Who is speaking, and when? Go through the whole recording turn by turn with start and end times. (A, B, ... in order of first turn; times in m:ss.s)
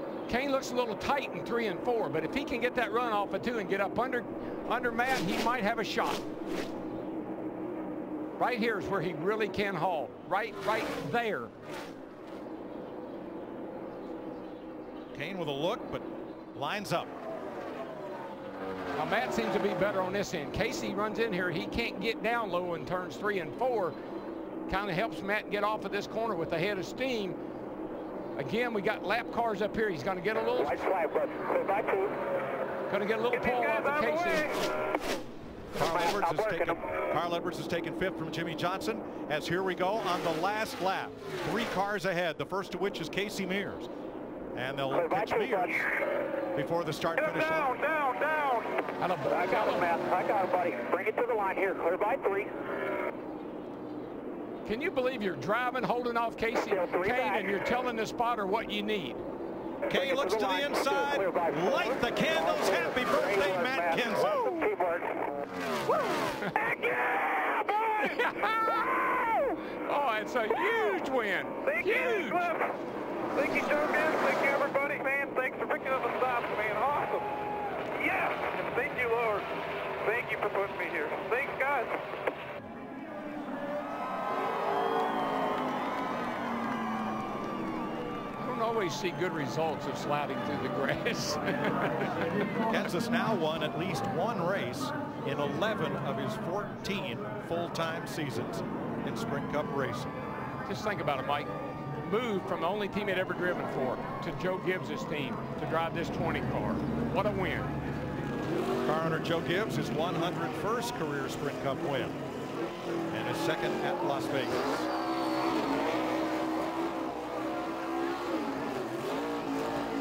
0:00.3-0:06.2 A
0:08.4-0:11.5 A
0:15.1-0:17.2 B
0:18.9-0:24.0 A
0:24.7-0:27.4 A
0:28.4-0:30.8 A
0:30.6-0:32.2 C
0:32.9-0:34.6 A
0:33.3-0:34.6 D
0:35.7-0:43.9 B
0:35.8-0:36.8 C
0:44.5-0:45.9 B
0:44.9-0:45.8 C
0:46.5-0:47.7 B
0:47.2-0:48.8 D
0:49.0-0:49.9 A
0:49.3-0:52.5 C
0:54.6-0:59.2 A
0:56.7-0:57.5 C
0:59.9-1:04.5 B
0:59.9-1:05.2 C
1:06.0-1:06.6 A
1:06.5-1:08.3 D
1:08.0-1:09.0 A
1:09.7-1:12.5 A
1:11.6-1:12.8 D
1:13.3-1:17.3 D
1:17.9-1:19.5 D
1:20.0-1:22.0 D
1:28.4-1:32.3 A
1:32.7-1:40.1 B
1:40.6-1:47.7 A
1:48.8-1:52.2 B
1:53.1-1:54.9 B